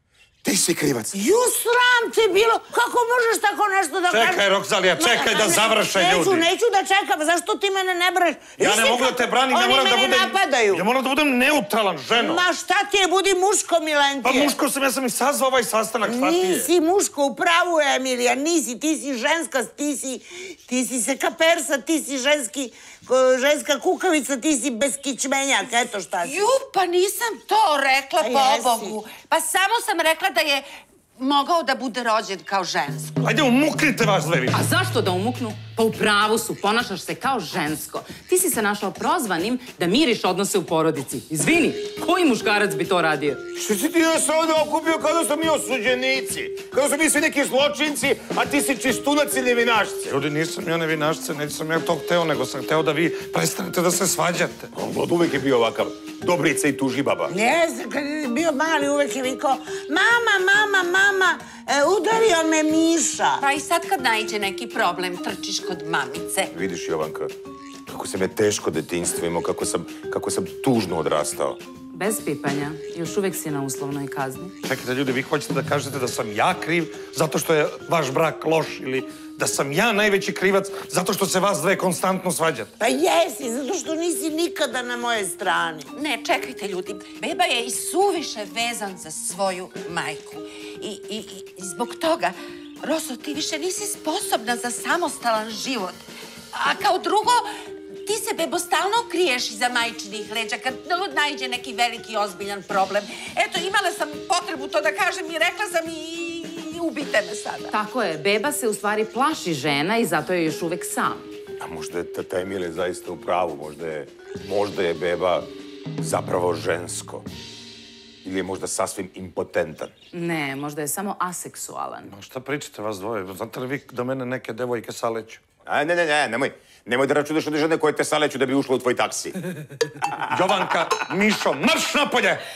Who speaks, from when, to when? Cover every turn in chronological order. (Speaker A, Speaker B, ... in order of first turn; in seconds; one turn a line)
Speaker A: 0.4-1.1
Speaker B: 1.1-4.4
Speaker C: 4.1-6.5
Speaker B: 5.0-10.8
Speaker C: 8.6-12.4
Speaker B: 12.1-14.5
Speaker C: 14.2-16.7
Speaker B: 16.0-26.5
Speaker D: 26.2-30.6
Speaker B: 28.2-29.0
Speaker D: 31.2-33.1
Speaker C: 33.2-34.6
Speaker E: 34.5-43.4
Speaker A: 43.5-50.1
Speaker C: 50.0-54.7
Speaker A: 54.7-57.3
Speaker B: 57.3-63.4
Speaker D: 63.4-66.5
Speaker A: 66.5-67.3
Speaker A: 67.9-71.6
Speaker E: 71.9-74.5
Speaker C: 74.6-82.7
Speaker B: 82.8-85.9
Speaker D: 85.9-97.5
Speaker D: 98.0-107.7
Speaker E: 107.7-111.3
Speaker A: 111.6-117.3
Speaker A: 118.2-119.9
Speaker E: 120.1-122.1
Speaker C: 122.1-125.4
Speaker A: 125.7-129.4
Speaker C: 130.3-132.4